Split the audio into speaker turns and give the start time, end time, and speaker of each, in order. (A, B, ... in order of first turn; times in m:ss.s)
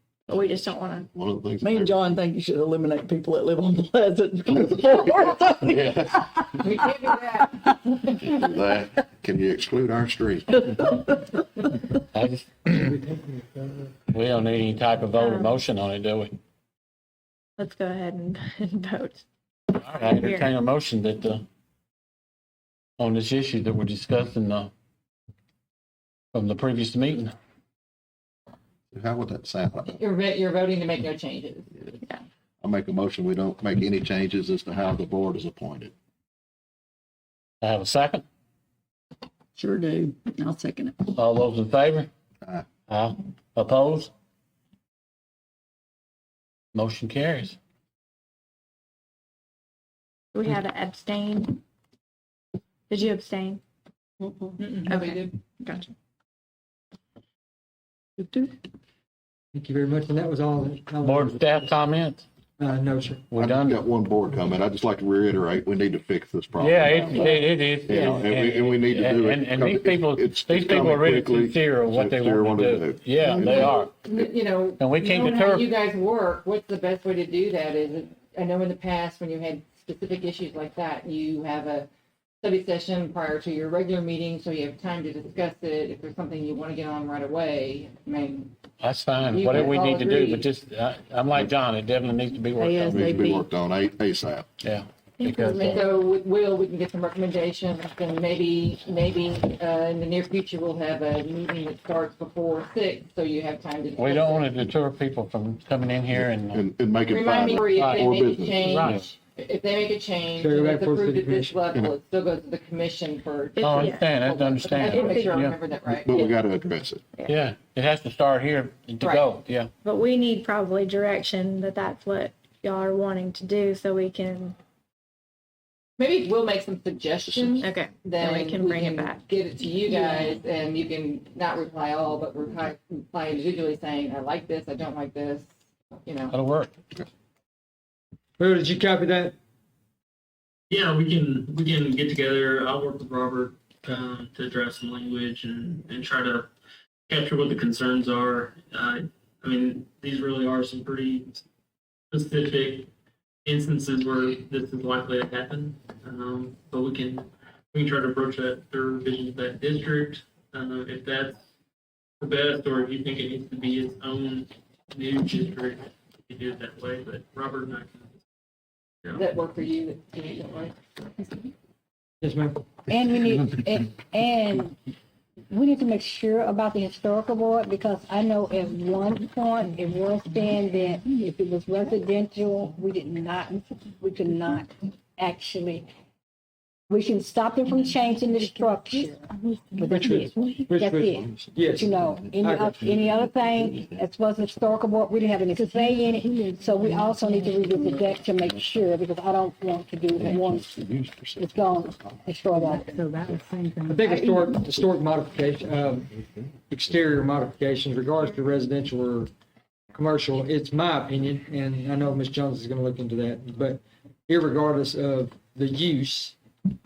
0:00.3-0:01.1 A
0:01.1-0:01.9 B
0:01.6-0:06.7 C
0:05.2-0:06.1 B
0:06.6-0:08.3 D
0:08.3-0:10.4 B
0:10.6-0:11.1 C
0:12.1-0:12.9 E
0:12.8-0:13.9 F
0:14.1-0:16.3 E
0:15.2-0:15.6 A
0:17.6-0:19.2 A
0:19.7-0:21.4 E
0:20.0-0:20.5 A
0:23.0-0:24.7 E
0:26.3-0:27.3 E
0:28.9-0:30.0 B
0:29.8-0:31.7 D
0:32.6-0:35.9 B
0:37.6-0:38.2 E
0:39.6-0:40.9 C
0:41.1-0:42.1 E
0:42.9-0:44.1 E
0:46.7-0:47.6 E
0:50.3-0:51.6 A
0:52.9-0:53.6 A
0:54.2-0:54.5 C
0:54.6-0:55.3 D
0:54.8-0:55.9 A
0:58.2-0:58.5 C
0:59.5-1:01.8 F
1:01.0-1:02.2 E
1:02.6-1:03.3 F
1:03.3-1:03.9 E
1:03.3-1:06.9 B
1:06.6-1:13.9 E
1:06.9-1:07.5 C
1:07.9-1:13.7 B
1:08.0-1:08.3 C
1:13.4-1:21.9 D
1:14.8-1:15.7 E
1:22.4-1:28.5 D
1:28.8-1:33.3 E
1:29.2-1:30.4 D
1:32.6-1:33.5 C
1:32.9-1:34.5 B
1:34.6-1:35.8 E
1:35.2-1:35.9 A
1:35.6-1:44.5 D
1:44.0-1:46.7 E
1:46.1-1:48.6 B
1:47.1-1:56.3 D
1:47.7-1:49.0 E
1:50.4-1:51.6 F
1:53.6-1:54.1 A
1:53.6-1:55.6 E
1:54.8-1:55.4 A
1:56.0-1:57.0 B
1:57.2-1:59.7 E
1:59.0-1:59.3 D
1:59.8-2:04.6 A
2:06.0-2:15.5 D
2:07.6-2:09.2 A
2:09.9-2:10.3 A
2:16.0-2:16.4 D
2:16.3-2:16.7 E
2:18.4-2:19.3 F
2:20.7-2:26.5 G
2:27.1-2:31.4 G
2:32.1-2:32.9 G
2:33.4-2:41.4 G
2:42.2-2:48.1 G
2:49.1-2:51.5 D
2:52.2-2:52.6 F
2:52.9-2:54.7 H
2:55.5-3:05.8 H
3:06.9-3:09.2 H
3:09.8-3:10.6 C
3:09.8-3:12.8 F
3:10.7-3:20.7 H
3:11.2-3:13.0 B
3:15.5-3:17.8 G
3:20.2-3:21.5 B
3:21.4-3:22.9 H
3:22.5-3:24.5 G
3:23.8-3:29.3 F
3:29.9-3:36.4 F